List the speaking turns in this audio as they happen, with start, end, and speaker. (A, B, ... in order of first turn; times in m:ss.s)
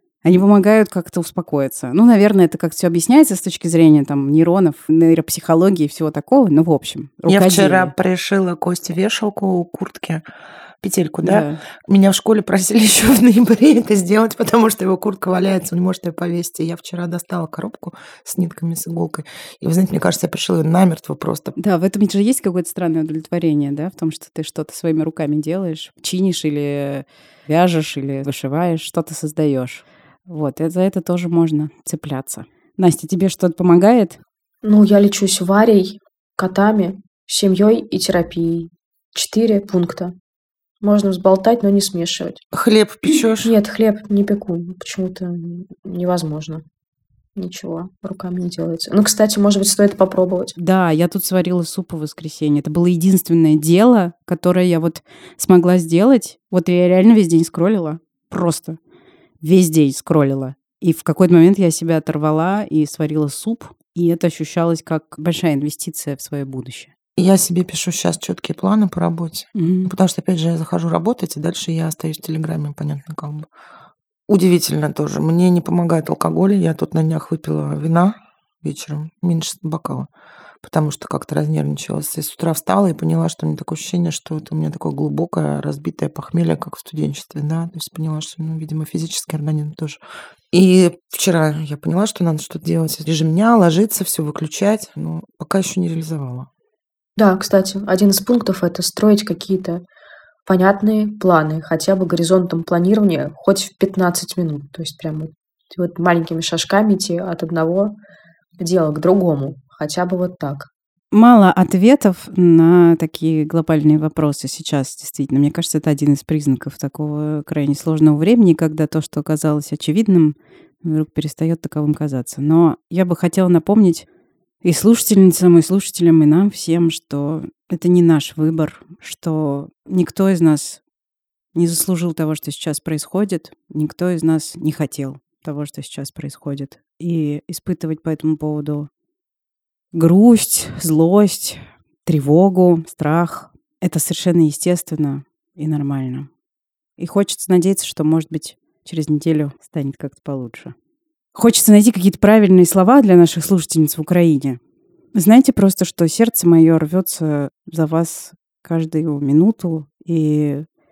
0:00.2-0:07.9 A
0:07.3-0:10.2 B
0:10.8-0:21.6 B
0:11.2-0:11.6 A
0:21.6-0:34.2 A
0:34.6-0:40.1 C
0:40.8-0:42.4 C
0:42.5-0:43.5 B
0:43.4-0:46.6 C
0:47.4-0:50.5 C
0:50.6-0:58.8 A
0:59.4-1:06.9 A
1:07.2-1:13.5 B
1:09.5-1:09.9 A
1:14.3-1:20.1 B
1:20.6-1:30.0 B
1:30.5-1:36.5 B
1:37.2-1:39.8 C
1:40.4-1:48.0 C
1:48.6-1:50.7 C
1:51.1-2:04.0 A
2:04.6-2:10.8 A
2:11.5-2:18.9 A
2:19.9-2:26.3 A
2:27.0-2:30.7 A
2:31.3-2:34.6 A
2:35.1-2:40.6 A